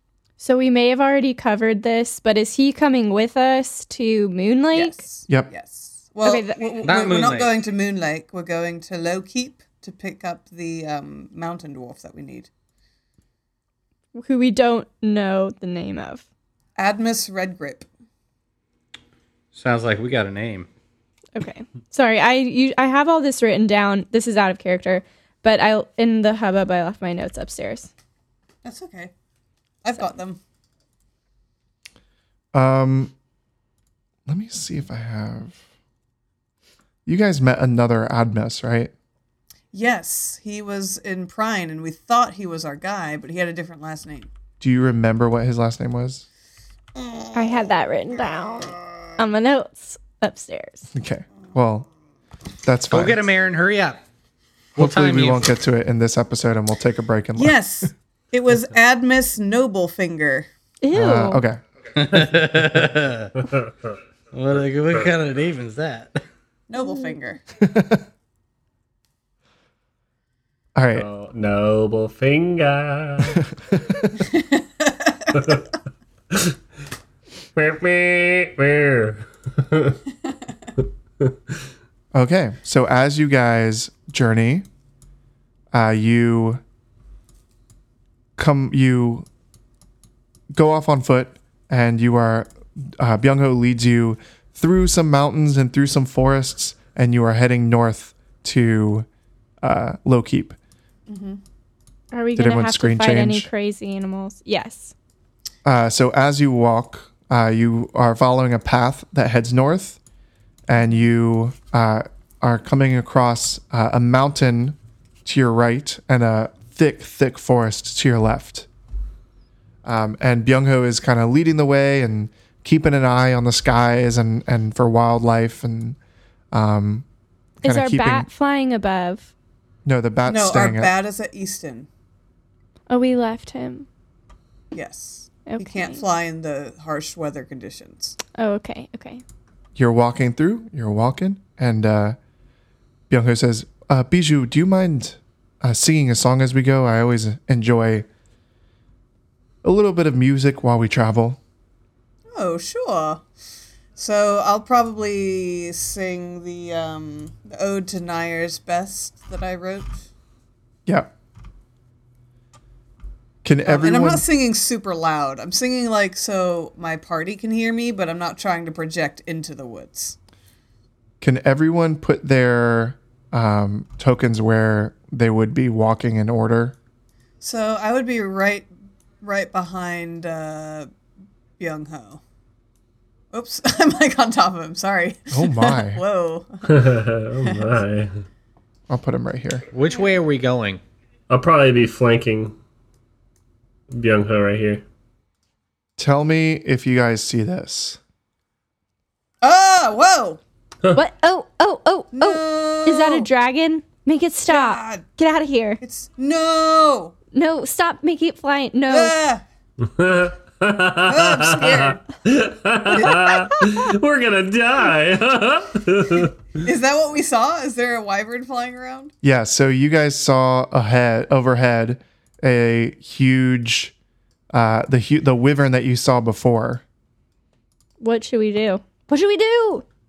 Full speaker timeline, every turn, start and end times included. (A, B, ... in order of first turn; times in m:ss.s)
0:00.4-0:05.0 A
0:04.7-0:12.5 B
0:06.2-0:06.7 A
0:06.8-0:07.5 C
0:14.1-0:16.2 A
0:16.8-0:17.8 B
0:19.5-0:20.7 C
0:21.3-0:27.9 A
0:28.6-0:29.1 B
0:29.8-0:30.4 B
0:32.5-0:33.1 D
0:34.2-0:35.6 D
0:37.0-0:38.9 D
0:39.7-0:44.3 B
0:44.6-0:46.2 D
0:47.3-0:50.9 A
0:50.9-0:51.9 D
0:52.6-0:53.2 D
0:52.9-0:54.0 C
0:54.8-0:55.5 C
0:54.8-0:57.6 D
0:57.4-1:00.5 B
1:00.8-1:01.4 A
1:00.9-1:01.6 D
1:01.9-1:03.3 C
1:03.4-1:03.7 E
1:04.3-1:06.2 C
1:06.7-1:07.4 B
1:06.8-1:07.2 A
1:07.6-1:08.0 D
1:10.7-1:11.1 D
1:10.9-1:13.4 E
1:13.7-1:14.1 D
1:14.3-1:15.5 B
1:17.5-1:20.0 E
1:22.1-1:24.7 D
1:25.7-1:26.6 D
1:28.4-1:29.2 D
1:30.5-1:39.1 D
1:39.6-1:40.6 D
1:41.1-1:41.4 B
1:42.1-1:44.9 A
1:42.4-1:43.5 D
1:45.6-1:50.0 D
1:50.7-1:58.7 D
1:59.8-2:06.0 D
2:06.5-2:07.0 D
2:07.6-2:09.3 A
2:07.6-2:08.3 D
2:09.8-2:10.9 D
2:10.2-2:11.9 B
2:12.9-2:13.9 A
2:14.7-2:18.2 B
2:15.4-2:16.0 A
2:18.3-2:19.2 A
2:19.8-2:22.2 D
2:23.1-2:28.1 D
2:29.6-2:31.4 D
2:32.3-2:33.2 B
2:34.0-2:40.0 B
2:43.4-2:44.2 D
2:43.6-2:50.2 B
2:51.2-2:56.8 D
2:57.4-2:58.7 B
2:59.2-3:00.9 B
3:01.6-3:02.2 B
3:03.3-3:07.7 B
3:05.3-3:06.0 D
3:06.6-3:08.2 E
3:08.9-3:09.6 D
3:09.7-3:10.8 C
3:11.3-3:12.5 E
3:13.9-3:14.8 E
3:16.0-3:18.0 D
3:19.4-3:20.4 B
3:20.9-3:25.8 A
3:22.1-3:23.3 B
3:24.5-3:25.0 B
3:25.8-3:27.1 B
3:27.3-3:29.1 A
3:28.9-3:29.4 B
3:29.8-3:36.4 E
3:31.0-3:32.0 B
3:32.9-3:33.4 B
3:36.6-3:39.1 B
3:39.2-3:43.9 D
3:44.5-3:46.8 D
3:48.0-3:49.8 A